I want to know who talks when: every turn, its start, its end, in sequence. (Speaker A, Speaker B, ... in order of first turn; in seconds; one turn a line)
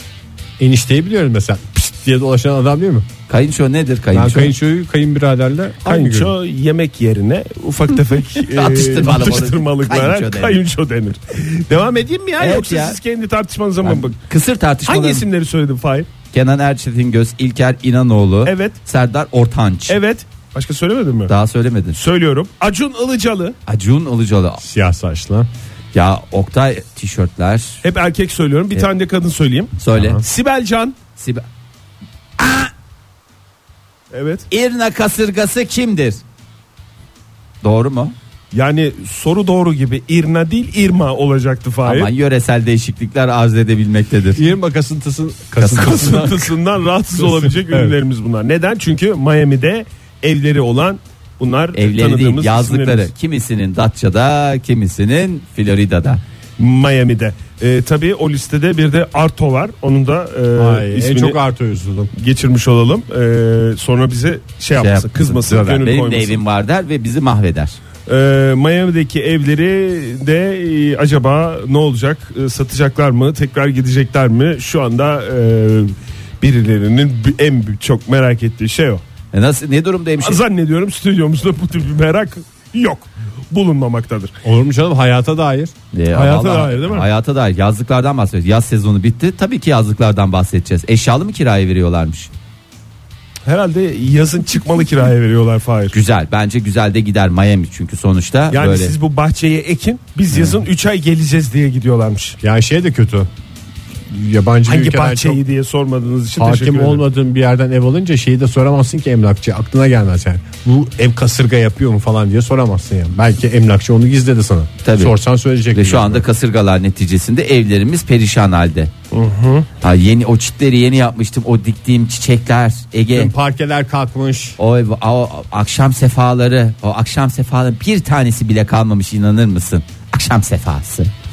Speaker A: 0.6-3.1
Speaker B: 3.3-4.5
Speaker A: 4.1-6.3
Speaker C: 5.8-14.2
Speaker B: 8.4-10.6
Speaker B: 12.4-13.0
Speaker B: 13.8-15.2
Speaker C: 14.8-16.1
Speaker B: 16.3-20.0
Speaker C: 18.4-18.8
Speaker C: 19.9-21.3
Speaker B: 21.3-22.0
Speaker C: 21.9-23.6
Speaker B: 23.6-24.6
Speaker A: 24.6-25.5
Speaker B: 25.9-27.8
Speaker C: 27.8-30.9
Speaker B: 29.8-30.2
Speaker A: 29.9-30.2
Speaker B: 31.1-31.4
Speaker B: 32.4-32.7
Speaker C: 34.1-34.5
Speaker B: 34.5-36.2
Speaker B: 37.6-38.1
Speaker C: 38.5-42.1
Speaker B: 41.8-44.4
Speaker A: 44.4-46.5
Speaker B: 45.6-46.3
Speaker C: 45.7-53.1
Speaker A: 47.1-48.0
Speaker B: 51.7-56.2
Speaker C: 56.6-61.4
Speaker A: 60.5-62.1
Speaker C: 62.1-66.4
Speaker B: 64.7-67.8
Speaker C: 68.1-79.0
Speaker B: 79.3-80.4
Speaker C: 80.2-84.3
Speaker A: 84.4-85.7
Speaker B: 85.9-92.3
Speaker C: 86.1-87.0
Speaker C: 93.4-96.0
Speaker B: 95.9-98.9
Speaker C: 98.5-102.4
Speaker A: 102.4-103.3
Speaker A: 104.1-105.4
Speaker C: 104.7-107.0
Speaker A: 106.3-116.2
Speaker B: 114.8-115.2
Speaker B: 115.7-118.9
Speaker C: 119.1-119.7
Speaker B: 119.8-123.3
Speaker A: 123.1-124.6
Speaker B: 124.6-131.1